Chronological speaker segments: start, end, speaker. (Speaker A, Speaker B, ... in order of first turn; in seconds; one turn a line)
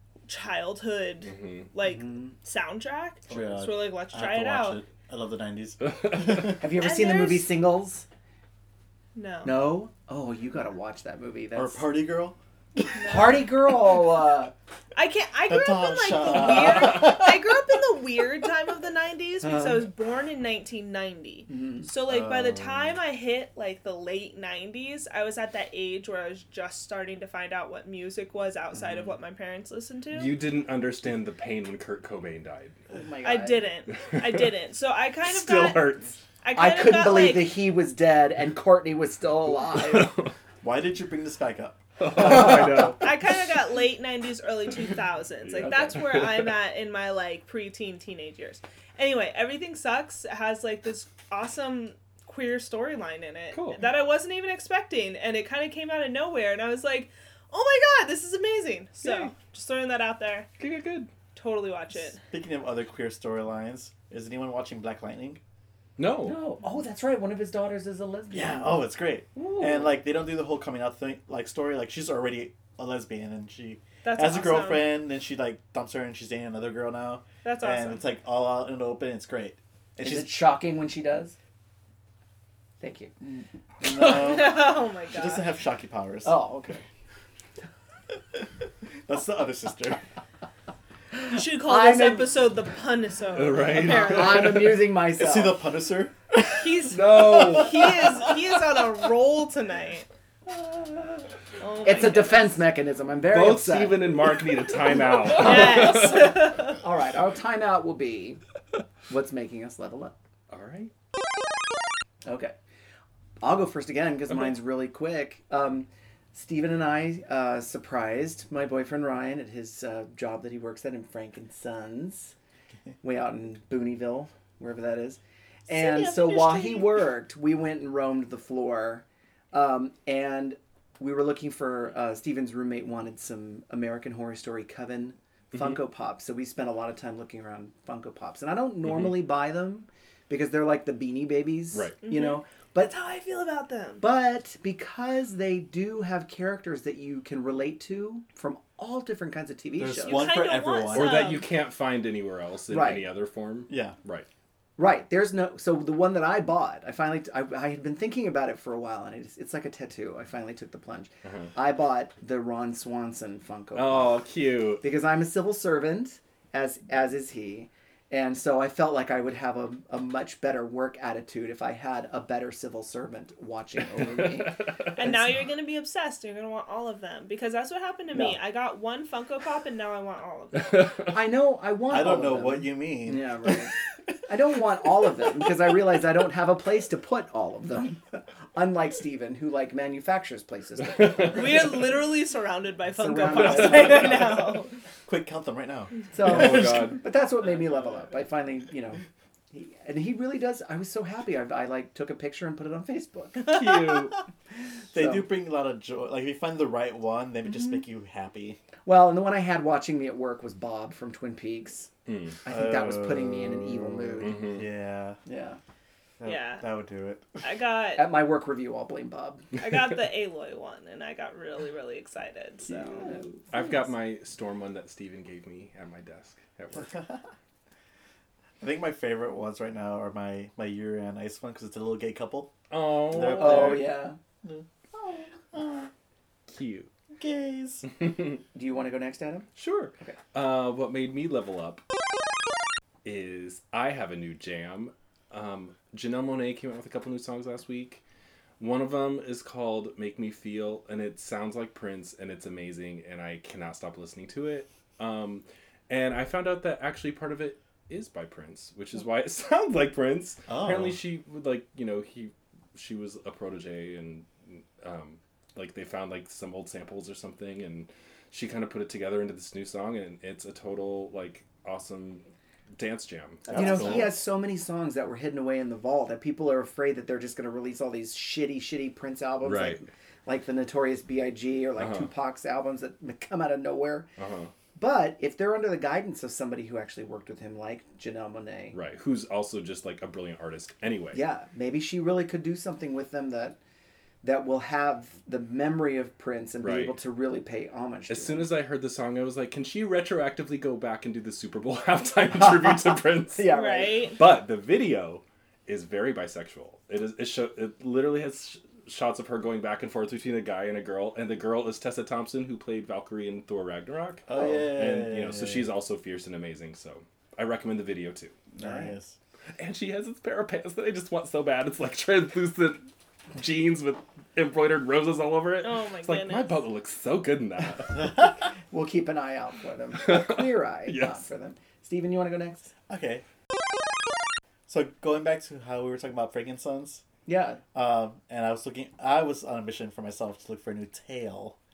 Speaker A: 0.2-4.8
Speaker B: 1.2-1.7
Speaker C: 1.8-2.3
Speaker D: 3.3-6.6
Speaker B: 5.8-6.6
Speaker C: 6.6-8.1
Speaker A: 6.8-7.5
Speaker A: 9.1-9.6
Speaker C: 9.4-11.9
Speaker D: 11.5-12.4
Speaker A: 12.9-13.5
Speaker C: 12.9-14.5
Speaker A: 14.9-30.3
Speaker D: 15.5-17.5
Speaker C: 21.5-21.9
Speaker D: 22.1-22.6
Speaker B: 30.1-32.8
Speaker C: 32.9-33.7
Speaker A: 33.2-37.5
Speaker B: 33.9-34.5
Speaker B: 35.2-36.2
Speaker C: 36.5-40.1
Speaker B: 39.7-40.3
Speaker D: 40.6-42.6
Speaker B: 42.0-43.4
Speaker C: 42.2-42.9
Speaker A: 42.9-60.5
Speaker B: 45.4-46.5
Speaker B: 53.5-53.9
Speaker B: 59.0-59.3
Speaker B: 60.6-61.1
Speaker A: 61.3-62.2
Speaker D: 62.3-65.4
Speaker B: 66.0-66.3
Speaker C: 66.2-70.0
Speaker D: 68.3-80.5
Speaker A: 74.0-74.9
Speaker A: 77.4-78.0
Speaker C: 80.0-81.3
Speaker C: 82.8-83.4
Speaker D: 83.8-86.4
Speaker A: 84.0-85.5
Speaker C: 86.2-86.8
Speaker D: 89.0-90.0
Speaker C: 91.2-92.3
Speaker A: 91.3-94.7
Speaker B: 93.3-94.8
Speaker C: 93.8-95.6
Speaker D: 95.2-96.1
Speaker A: 96.6-100.1
Speaker B: 96.9-98.0
Speaker C: 100.5-101.3
Speaker A: 101.6-102.6
Speaker C: 101.8-104.1
Speaker B: 103.3-106.4
Speaker A: 105.3-106.8
Speaker C: 105.4-106.1
Speaker C: 106.8-108.4
Speaker C: 109.1-110.1
Speaker B: 110.5-110.9
Speaker C: 112.2-112.5
Speaker C: 113.4-122.3
Speaker C: 123.0-142.9
Speaker A: 125.7-127.0
Speaker B: 135.5-135.8
Speaker B: 138.8-139.2
Speaker B: 141.7-142.0
Speaker A: 142.0-144.0
Speaker C: 144.0-150.3
Speaker D: 149.8-151.2
Speaker A: 150.0-151.5
Speaker B: 150.9-154.3
Speaker C: 152.7-153.1
Speaker D: 153.7-153.9
Speaker C: 154.8-164.2
Speaker B: 161.2-161.5
Speaker B: 163.8-164.8
Speaker C: 164.8-175.3
Speaker B: 174.0-174.7
Speaker A: 174.9-180.9
Speaker B: 180.7-181.1
Speaker C: 181.1-183.7
Speaker D: 181.9-183.5
Speaker C: 184.3-191.7
Speaker B: 190.9-191.8
Speaker A: 191.3-194.7
Speaker C: 192.9-194.4
Speaker B: 193.3-194.3
Speaker D: 195.1-196.8
Speaker C: 196.1-199.0
Speaker B: 196.2-197.0
Speaker C: 199.5-203.9
Speaker B: 203.4-204.2
Speaker D: 204.9-208.6
Speaker C: 204.9-205.3
Speaker C: 208.8-211.9
Speaker B: 212.1-212.4
Speaker C: 212.4-214.4
Speaker D: 212.4-215.2
Speaker B: 214.2-214.7
Speaker C: 215.2-215.6
Speaker D: 216.2-217.4
Speaker A: 216.2-216.7
Speaker A: 217.4-218.0
Speaker C: 218.0-219.4
Speaker A: 219.6-223.1
Speaker B: 223.5-227.0
Speaker D: 226.8-227.2
Speaker D: 228.6-233.9
Speaker B: 232.7-233.9
Speaker C: 233.2-234.2
Speaker D: 234.4-235.9
Speaker B: 236.5-236.9
Speaker D: 237.2-237.9
Speaker C: 238.5-239.5
Speaker B: 239.6-241.8
Speaker B: 243.0-248.0
Speaker B: 248.6-272.2
Speaker D: 260.5-261.0
Speaker B: 272.8-274.1
Speaker D: 273.5-274.1
Speaker C: 273.5-284.1
Speaker B: 279.4-279.8
Speaker B: 281.8-282.1
Speaker B: 284.2-284.5
Speaker C: 284.8-288.8
Speaker B: 288.7-291.2
Speaker C: 291.1-293.6
Speaker C: 294.2-298.5
Speaker B: 296.6-296.9
Speaker B: 298.1-303.5
Speaker C: 302.4-304.1
Speaker A: 303.5-304.2
Speaker B: 304.1-318.4
Speaker D: 314.3-315.7
Speaker D: 318.6-319.1
Speaker C: 318.6-318.9
Speaker B: 319.6-328.2
Speaker A: 325.6-326.6
Speaker C: 328.7-332.7
Speaker B: 330.0-331.2
Speaker D: 332.9-333.2
Speaker D: 334.7-337.0
Speaker C: 337.2-337.6
Speaker D: 337.7-341.6